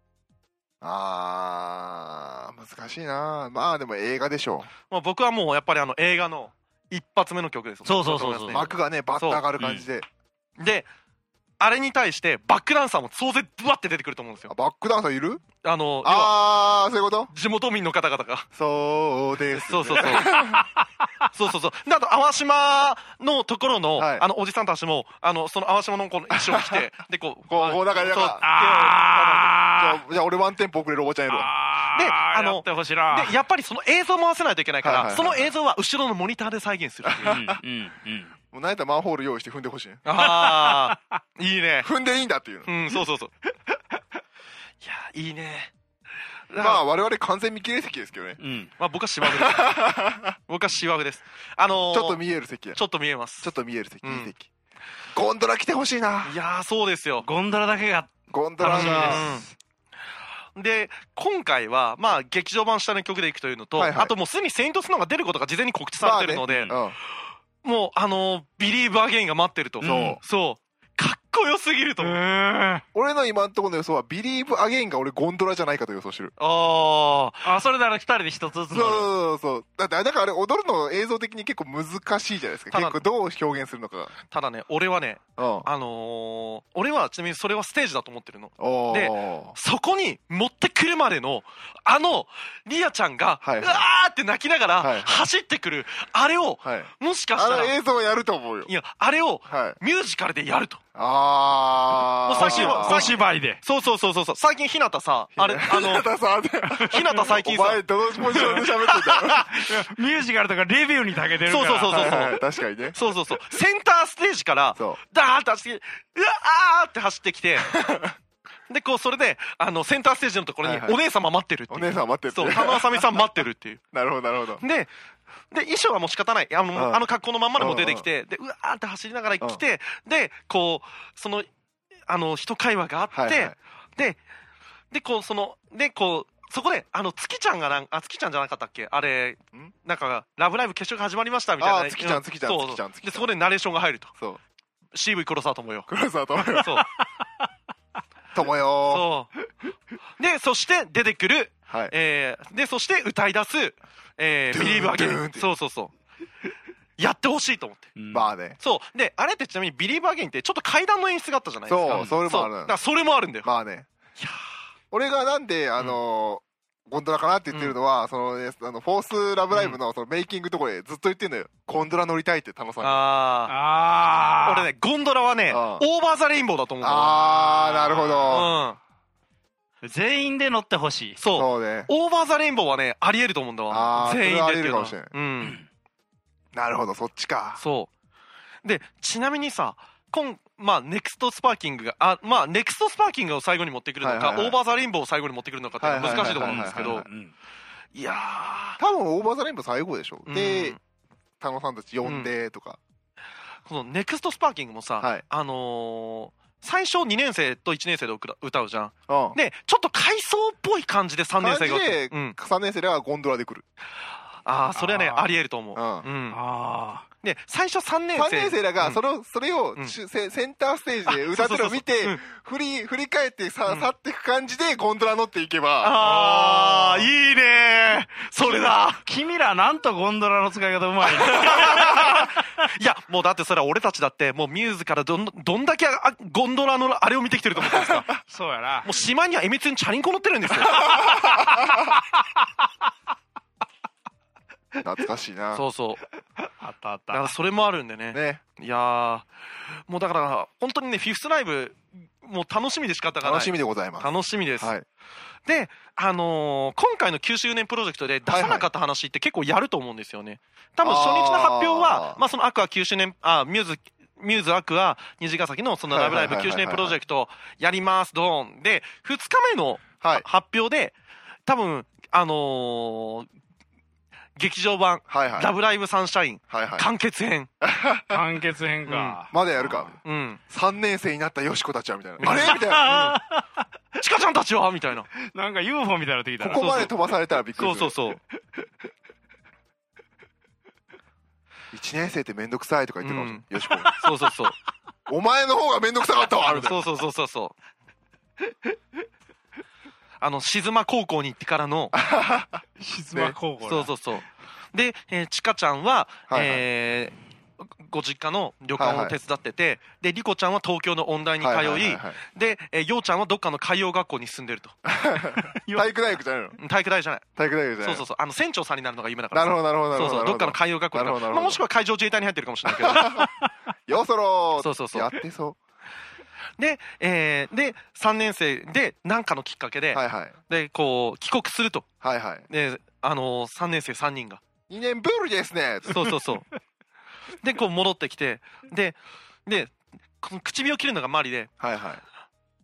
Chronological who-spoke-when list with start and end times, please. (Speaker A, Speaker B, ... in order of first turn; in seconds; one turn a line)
Speaker A: 0.8-4.7
Speaker B: 4.9-9.4
Speaker C: 7.8-8.7
Speaker A: 8.5-10.1
Speaker C: 9.6-9.8
Speaker B: 10.6-10.9
Speaker B: 11.6-14.5
Speaker A: 14.5-15.4
Speaker B: 15.6-16.6
Speaker A: 16.0-17.3
Speaker B: 17.3-18.5
Speaker A: 18.5-20.6
Speaker B: 19.5-20.6
Speaker C: 20.3-20.7
Speaker B: 21.3-29.6
Speaker A: 24.0-24.2
Speaker A: 26.3-26.8
Speaker A: 27.5-28.4
Speaker C: 28.4-30.0
Speaker A: 29.8-31.5
Speaker C: 31.3-33.3
Speaker B: 31.9-37.4
Speaker A: 34.8-35.5
Speaker A: 37.1-37.6
Speaker C: 37.2-38.3
Speaker A: 38.5-40.0
Speaker B: 40.0-41.9
Speaker C: 40.1-40.9
Speaker A: 41.8-42.7
Speaker B: 42.6-43.3
Speaker B: 44.8-45.7
Speaker B: 46.5-46.8
Speaker A: 46.6-48.4
Speaker C: 48.4-48.7
Speaker B: 48.8-49.8
Speaker A: 49.2-50.3
Speaker B: 50.5-52.2
Speaker A: 51.9-52.8
Speaker B: 52.7-53.5
Speaker A: 53.4-54.5
Speaker B: 54.0-54.3
Speaker A: 55.1-56.3
Speaker B: 56.2-57.2
Speaker C: 57.2-59.5
Speaker A: 58.3-59.3
Speaker B: 58.7-59.5
Speaker B: 60.5-66.8
Speaker A: 63.8-64.1
Speaker A: 66.0-67.0
Speaker C: 66.5-66.8
Speaker B: 67.6-72.2
Speaker C: 69.8-70.2
Speaker A: 69.8-70.2
Speaker C: 72.0-72.8
Speaker A: 72.9-76.3
Speaker B: 76.4-77.5
Speaker C: 77.4-79.1
Speaker A: 78.7-84.1
Speaker B: 82.7-83.0
Speaker B: 84.3-97.8
Speaker A: 85.4-85.7
Speaker A: 88.6-89.5
Speaker A: 93.4-93.8
Speaker A: 94.8-95.2
Speaker A: 96.6-98.7
Speaker B: 98.7-100.8
Speaker A: 99.5-99.8
Speaker A: 100.9-103.2
Speaker B: 102.2-106.1
Speaker C: 102.3-103.6
Speaker A: 105.3-109.6
Speaker C: 106.6-107.3
Speaker B: 106.8-109.5
Speaker C: 109.3-112.3
Speaker B: 111.5-112.4
Speaker A: 111.9-113.0
Speaker B: 112.9-117.8
Speaker A: 117.6-118.2
Speaker B: 118.7-123.8
Speaker A: 120.6-121.0
Speaker A: 121.7-123.0
Speaker A: 123.9-124.6
Speaker B: 124.6-124.9
Speaker B: 125.5-131.5
Speaker A: 126.8-127.0
Speaker A: 127.6-128.1
Speaker B: 132.1-134.2
Speaker A: 133.1-133.5
Speaker B: 134.9-144.1
Speaker A: 141.6-143.3
Speaker B: 144.9-145.9
Speaker A: 145.9-146.8
Speaker B: 146.6-146.9
Speaker C: 146.9-147.3
Speaker A: 148.3-149.1
Speaker B: 148.8-149.3
Speaker B: 150.2-155.9
Speaker A: 151.7-151.9
Speaker A: 154.5-155.5
Speaker B: 157.0-157.9
Speaker C: 157.9-158.3
Speaker A: 158.1-158.6
Speaker B: 158.6-163.5
Speaker A: 161.7-162.8
Speaker C: 161.9-162.2
Speaker A: 163.4-163.9
Speaker A: 164.9-173.0
Speaker B: 167.5-167.8
Speaker B: 172.8-173.6
Speaker C: 173.5-174.7
Speaker B: 174.3-178.8
Speaker A: 175.5-175.8
Speaker A: 176.8-178.5
Speaker C: 177.9-178.2
Speaker C: 179.8-181.2
Speaker B: 181.2-185.6
Speaker A: 181.3-181.9
Speaker A: 183.7-185.1
Speaker A: 186.5-187.6
Speaker B: 187.6-187.9
Speaker B: 188.6-197.1
Speaker A: 194.0-194.6
Speaker A: 195.8-197.1
Speaker C: 196.0-197.3
Speaker B: 197.9-198.8
Speaker A: 198.8-200.8
Speaker B: 200.3-200.8
Speaker A: 201.4-202.8
Speaker B: 202.0-202.3
Speaker B: 203.7-212.4
Speaker A: 209.1-209.4
Speaker A: 211.4-213.6
Speaker B: 214.4-216.4
Speaker C: 214.8-215.3
Speaker A: 215.7-216.1
Speaker C: 216.3-217.1
Speaker B: 217.2-219.0
Speaker A: 218.2-226.1
Speaker B: 221.2-222.2
Speaker B: 225.8-229.0
Speaker C: 226.3-226.9
Speaker C: 229.0-232.4
Speaker B: 231.2-238.1
Speaker A: 237.6-238.0
Speaker C: 238.2-238.9
Speaker B: 238.8-241.3
Speaker C: 240.7-241.9
Speaker A: 241.0-241.2
Speaker A: 244.8-245.6
Speaker B: 245.5-246.0
Speaker C: 246.4-247.3
Speaker B: 247.1-249.3
Speaker A: 248.1-248.4
Speaker B: 249.9-254.7
Speaker A: 253.2-254.8
Speaker B: 255.4-270.9
Speaker A: 258.3-258.7
Speaker A: 260.8-262.2
Speaker A: 265.9-267.0
Speaker B: 271.5-273.3
Speaker B: 274.4-277.5
Speaker A: 275.1-275.5
Speaker A: 276.5-276.9
Speaker A: 277.6-278.2
Speaker C: 278.1-279.9
Speaker B: 278.9-279.2
Speaker A: 279.3-282.9
Speaker B: 280.0-280.4
Speaker B: 282.2-283.2
Speaker C: 282.2-283.4
Speaker B: 284.0-285.1
Speaker C: 285.2-286.9
Speaker A: 286.4-288.1
Speaker B: 286.5-286.9
Speaker B: 287.6-288.2
Speaker A: 291.7-293.9
Speaker B: 293.0-293.4
Speaker C: 293.7-294.1
Speaker B: 293.9-294.6
Speaker A: 295.1-296.9
Speaker B: 296.4-297.5
Speaker B: 300.2-301.9
Speaker A: 301.9-302.6
Speaker C: 302.8-303.9
Speaker B: 303.6-314.8
Speaker A: 306.3-306.6
Speaker A: 308.8-309.1
Speaker A: 311.4-312.2
Speaker A: 314.8-316.6
Speaker C: 315.4-315.9
Speaker B: 316.6-317.2
Speaker A: 317.4-318.0
Speaker B: 317.8-323.2
Speaker A: 319.3-321.6
Speaker A: 322.7-323.3
Speaker C: 323.2-323.5
Speaker A: 323.9-325.6
Speaker B: 324.6-325.1
Speaker B: 326.6-331.9
Speaker A: 329.9-330.3
Speaker A: 332.0-332.5
Speaker B: 332.5-334.4
Speaker A: 334.7-336.1
Speaker B: 335.9-336.5
Speaker B: 337.4-341.5
Speaker A: 341.6-342.0